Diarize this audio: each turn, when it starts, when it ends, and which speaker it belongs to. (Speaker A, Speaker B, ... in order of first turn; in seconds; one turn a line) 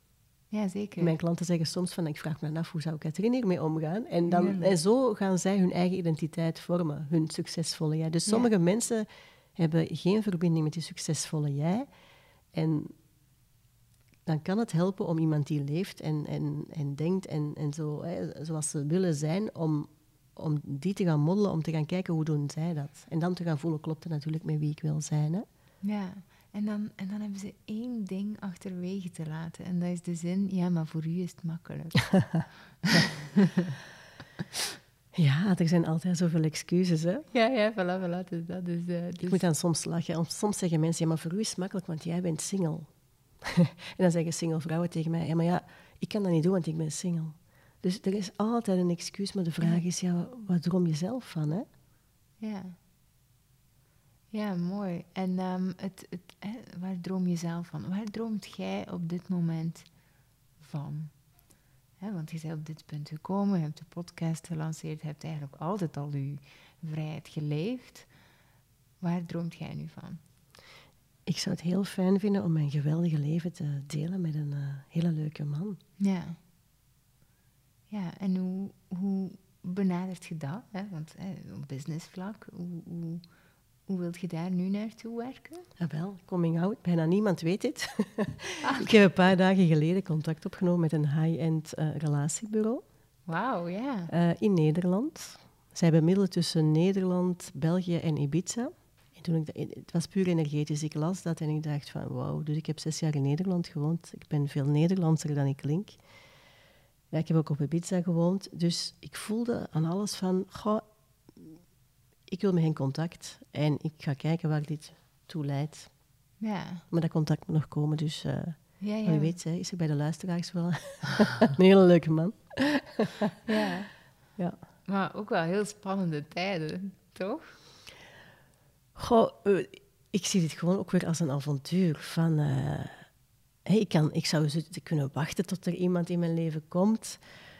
Speaker A: 0.5-1.2
Speaker B: 1.0-11.9
Speaker A: 4.3-4.8
Speaker B: 12.5-12.9
Speaker B: 14.2-25.4
Speaker A: 25.8-33.2
Speaker B: 35.1-37.2
Speaker A: 37.3-39.4
Speaker B: 39.2-51.7
Speaker A: 52.4-52.8
Speaker A: 54.3-60.0
Speaker A: 60.6-61.4
Speaker A: 62.0-68.1
Speaker A: 69.0-70.2
Speaker B: 71.2-75.8
Speaker A: 76.0-76.4
Speaker A: 77.9-83.3
Speaker A: 83.9-85.7
Speaker B: 85.8-92.8
Speaker A: 88.6-89.0
Speaker A: 93.2-94.1
Speaker B: 94.1-106.0
Speaker B: 107.1-110.8
Speaker B: 111.3-111.6
Speaker B: 112.3-116.0
Speaker A: 116.4-116.8
Speaker B: 116.9-123.3
Speaker A: 118.8-119.4
Speaker A: 123.5-124.0
Speaker A: 124.8-127.6
Speaker B: 128.9-133.1
Speaker B: 133.6-137.2